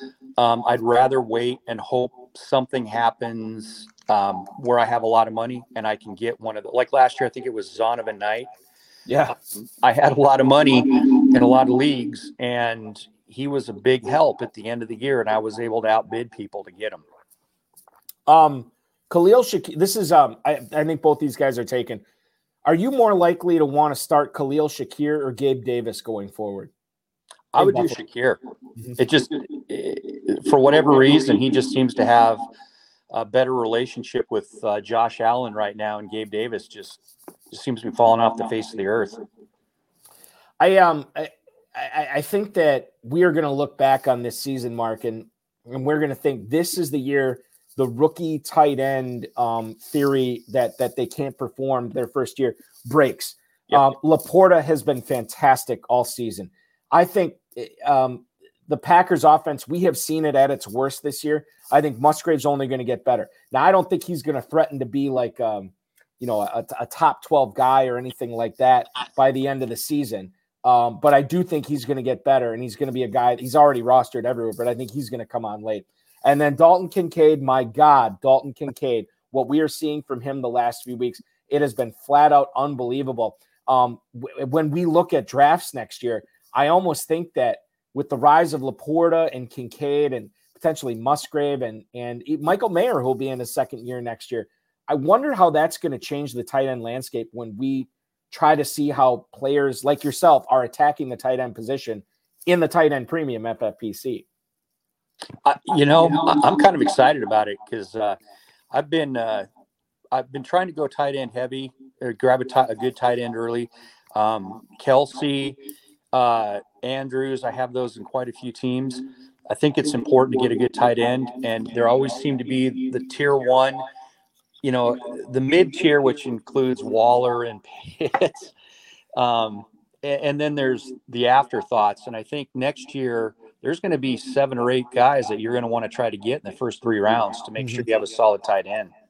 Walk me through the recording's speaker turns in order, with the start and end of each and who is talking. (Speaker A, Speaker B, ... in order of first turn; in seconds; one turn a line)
Speaker A: 0.4-8.5
Speaker B: 9.1-9.3
Speaker A: 9.3-17.0
Speaker B: 18.3-22.0
Speaker B: 22.6-26.7
Speaker A: 27.5-28.4
Speaker B: 27.6-28.0
Speaker A: 29.0-32.4
Speaker A: 33.1-37.0
Speaker A: 37.5-39.2
Speaker B: 40.6-104.2
Speaker A: 105.4-108.2
Speaker A: 108.7-109.5
Speaker A: 110.1-115.6
Speaker A: 116.1-123.8
Speaker A: 124.6-128.5
Speaker A: 129.1-138.9
Speaker B: 137.6-137.8